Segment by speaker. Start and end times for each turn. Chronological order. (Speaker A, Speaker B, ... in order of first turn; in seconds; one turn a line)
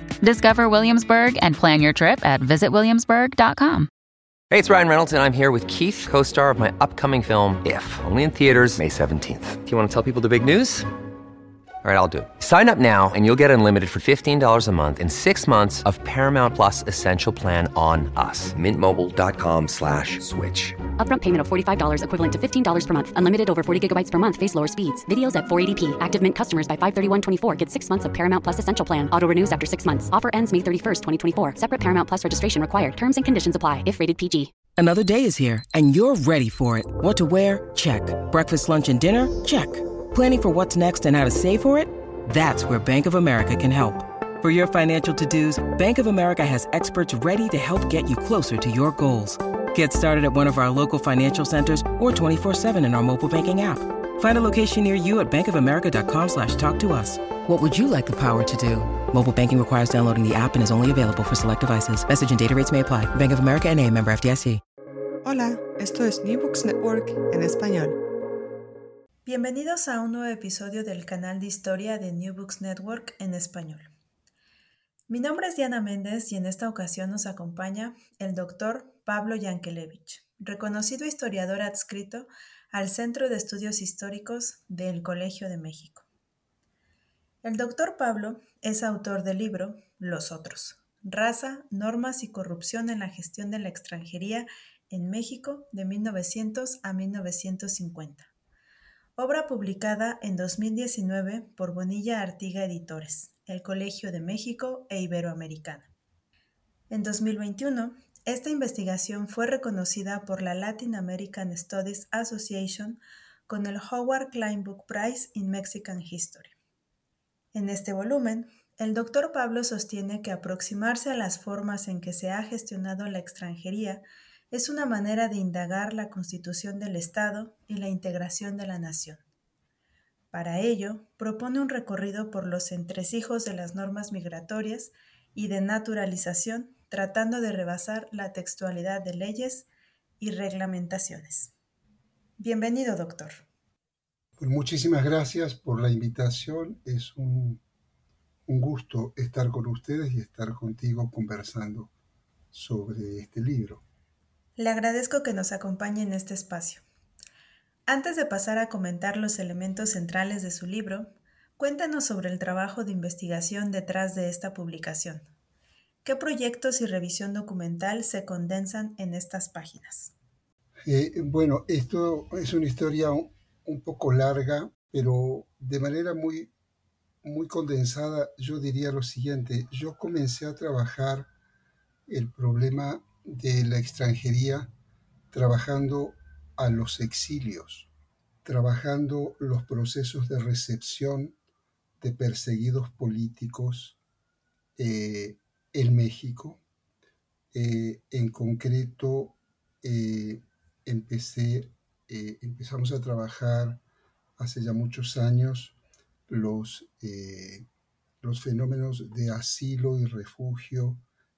Speaker A: 0.2-3.9
Speaker B: 4.5-10.9
Speaker B: 11.8-20.7
Speaker C: 21.0-34.5
Speaker D: 34.8-64.6
Speaker E: 65.2-68.0
Speaker F: 69.2-73.9
Speaker F: 75.1-86.0
Speaker F: 87.4-98.3
Speaker F: 99.2-105.9
Speaker F: 106.9-116.5
Speaker F: 117.5-129.2
Speaker F: 130.3-139.7
Speaker F: 140.2-141.5
Speaker F: 142.4-143.4
Speaker G: 144.4-147.6
Speaker G: 148.5-151.9
Speaker G: 152.5-153.8
Speaker F: 154.6-156.8
Speaker F: 157.9-165.3
Speaker F: 166.0-170.1
Speaker G: 170.8-176.5
Speaker G: 177.2-181.3
Speaker G: 182.1-184.7
Speaker G: 185.3-187.9
Speaker G: 188.4-191.4
Speaker G: 192.0-194.0
Speaker G: 194.8-196.6
Speaker G: 197.5-203.8
Speaker G: 204.4-207.7
Speaker G: 208.2-211.0